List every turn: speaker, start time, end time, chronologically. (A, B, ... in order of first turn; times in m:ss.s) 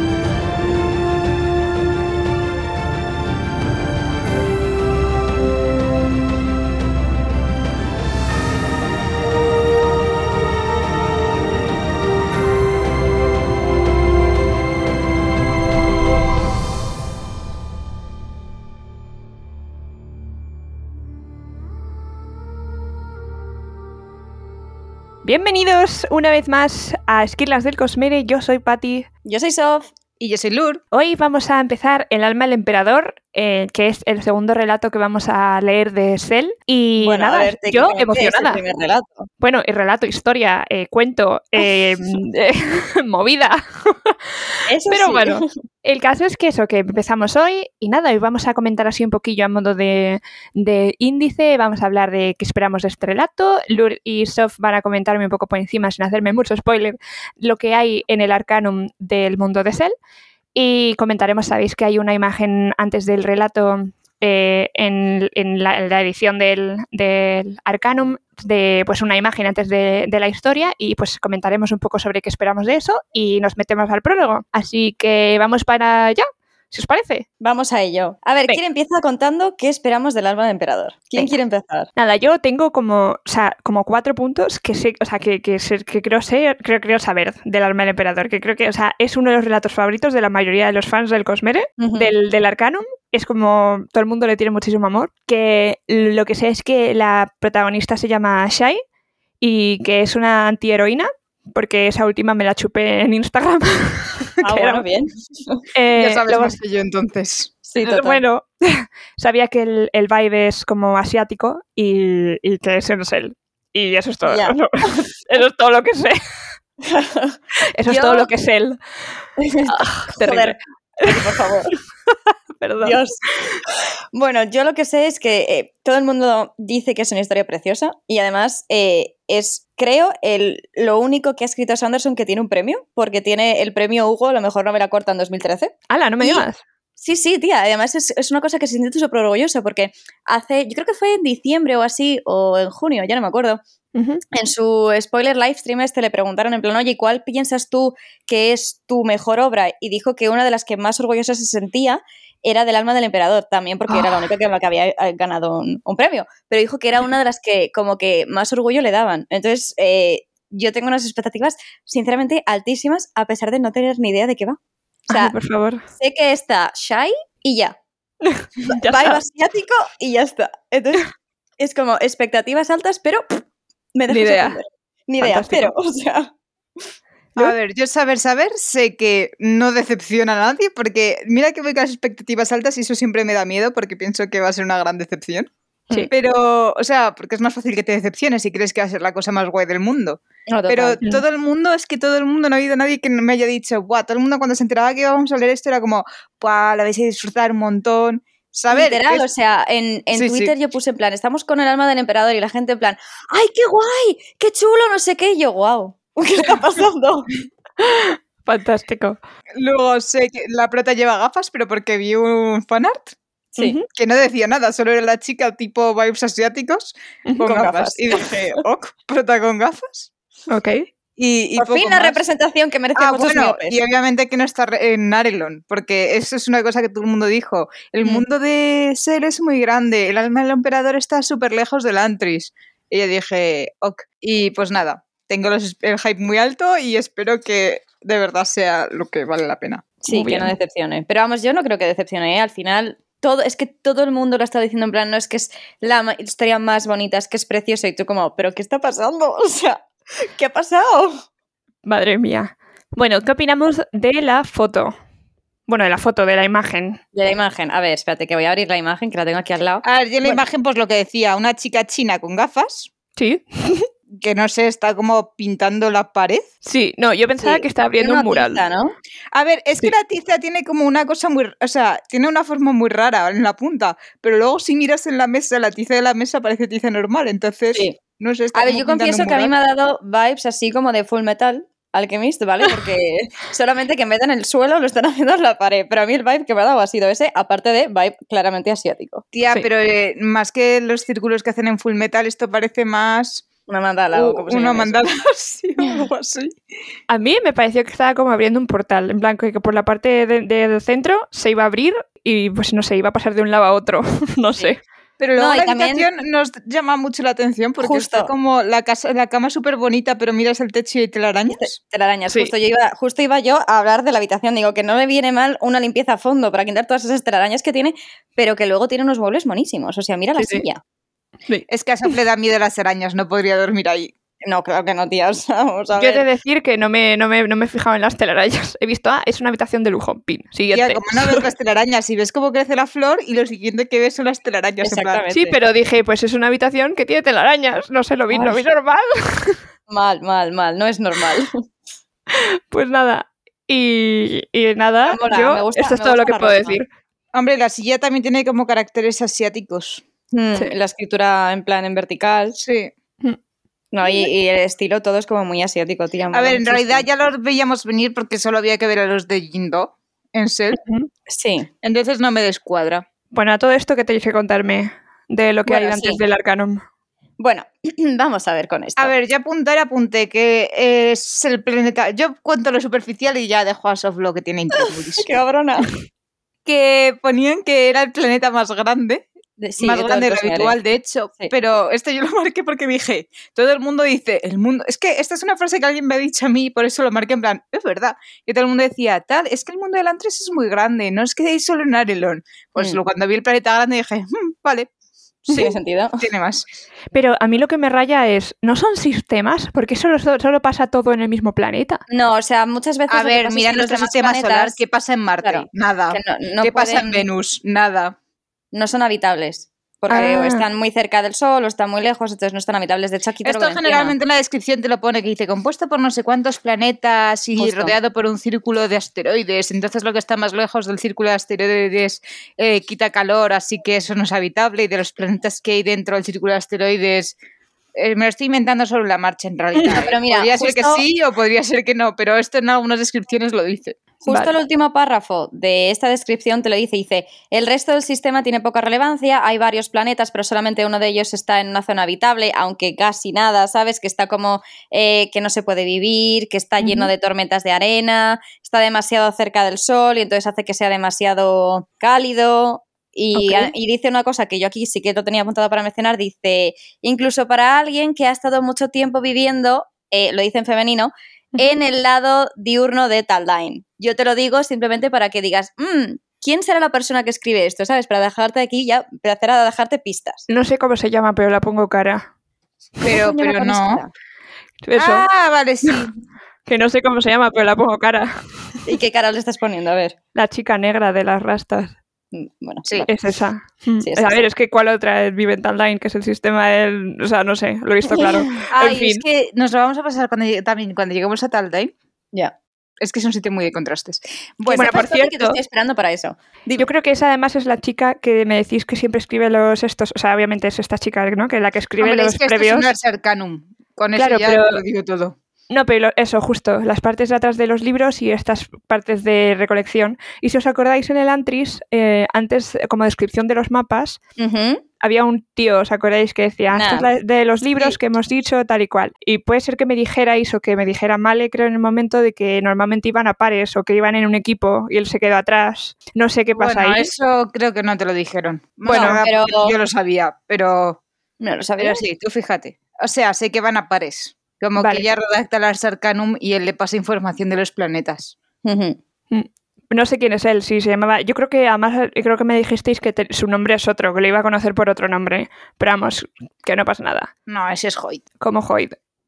0:25.2-0:29.1 A
0:29.2-0:29.9 B
0:30.2-0:30.8 C
0:30.9-0:38.6 A
0:37.0-0:39.3 B
0:39.4-0:59.9 A
0:44.7-0:45.4 B
1:00.6-1:17.2 A
1:17.4-1:21.9 B
1:22.0-1:38.8 A
1:31.8-1:32.1 B
1:39.4-1:44.8 A
1:44.4-1:45.6 B
1:45.7-1:46.6 A
1:46.0-1:47.5 C
1:47.7-1:48.2 B
1:47.8-1:56.2 A
1:54.3-1:54.6 B
1:56.8-1:58.3 B
1:57.7-1:58.8 A
1:59.4-2:01.7 B
1:59.6-2:01.2 A
2:01.7-2:03.6 A
2:02.8-2:16.4 B
2:15.9-2:16.6 A
2:17.0-2:23.6 B
2:23.9-2:24.2 A
2:24.3-2:44.6 B
2:33.9-2:34.2 A
2:45.1-2:45.8 A
2:45.9-2:47.8 B
2:48.2-2:49.2 A
2:48.7-2:53.4 B
2:53.9-2:56.3 B
2:54.1-2:54.6 A
2:55.2-2:55.7 A
2:57.4-3:05.5 C
3:06.1-3:19.2 C
3:10.5-3:11.0 B
3:18.7-3:27.3 B
3:20.1-3:20.5 C
3:27.8-3:29.2 A
3:29.6-3:33.2 C
3:33.6-3:33.9 A
3:33.9-3:40.1 C
3:37.4-3:38.6 B
3:40.5-3:40.9 A
3:41.2-3:42.2 C
3:41.6-3:43.8 B
3:43.0-3:59.9 C
4:00.0-4:11.2 B
4:00.1-4:00.5 A
4:11.8-4:14.9 A
4:15.7-4:17.0 A
4:17.1-4:20.4 B
4:19.8-4:22.9 C
4:23.2-4:23.9 A
4:24.1-4:26.4 C
4:26.6-4:28.6 A
4:27.4-4:28.9 B
4:29.3-4:39.5 C
4:38.5-4:49.2 B
4:49.3-4:53.4 C
4:53.7-4:55.0 B
4:54.1-4:56.6 C
4:57.1-5:04.8 A
5:05.2-5:11.8 C
5:05.4-5:06.1 B
5:07.8-5:08.3 B
5:11.5-5:20.8 B
5:20.4-5:20.6 A
5:21.5-5:22.1 A
5:21.7-5:24.1 C
5:24.4-5:26.2 B
5:26.0-5:31.4 A
5:30.7-5:35.2 C
5:34.8-5:35.5 B
5:35.3-5:39.6 A
5:38.3-5:38.6 B
5:39.9-5:41.6 B
5:42.3-5:46.9 A
5:45.1-5:46.8 B
5:47.3-5:50.0 C
5:50.3-5:52.6 B
5:52.6-5:52.9 C
5:53.9-5:57.0 B
5:56.3-6:00.8 C
6:00.8-6:01.1 A
6:01.3-6:01.7 B
6:01.8-6:03.0 C
6:03.3-6:06.8 A
6:05.7-6:06.2 B
6:07.4-6:09.1 B
6:09.0-6:15.3 C
6:14.8-6:15.9 B
6:16.6-6:19.3 C
6:19.6-6:20.8 B
6:19.8-6:34.9 C
6:35.5-6:36.2 B
6:36.2-6:36.6 C
6:37.1-6:42.0 A
6:42.1-6:44.8 B
6:43.1-6:48.1 C
6:45.4-6:47.2 B
6:48.7-6:54.1 B
6:50.1-6:50.6 A
6:53.4-7:07.4 C
6:57.6-6:57.9 B
7:08.0-7:14.0 C
7:09.7-7:10.0 A
7:09.9-7:11.0 B
7:14.2-7:50.5 B
7:26.8-7:27.1 A
7:33.3-7:33.7 A
7:50.5-7:52.3 A
7:53.0-7:54.0 C
7:53.0-7:54.1 B
7:54.8-7:55.3 A
7:55.0-7:56.1 C
7:56.7-7:58.8 A
7:58.9-8:00.2 B
8:00.3-8:02.0 A
8:02.3-8:03.1 B
8:03.1-8:09.2 A
8:04.0-8:04.4 B
8:08.1-8:08.6 B
8:08.7-8:11.9 C
8:13.0-8:15.0 C
8:14.7-8:16.8 B
8:14.7-8:15.6 A
8:16.8-8:22.9 A
8:22.0-8:25.4 C
8:24.2-8:24.8 A
8:25.7-8:34.2 A
8:34.4-8:34.8 B
8:35.0-8:47.1 A
8:36.7-8:37.1 B
8:46.6-8:51.0 C
8:48.9-8:49.2 A
8:48.9-8:49.8 B
8:51.4-8:52.0 B
8:51.8-8:58.4 C
8:54.8-8:55.1 A
8:58.6-8:59.0 B
8:59.3-9:07.3 A
9:07.5-9:08.2 C
9:08.4-9:09.0 A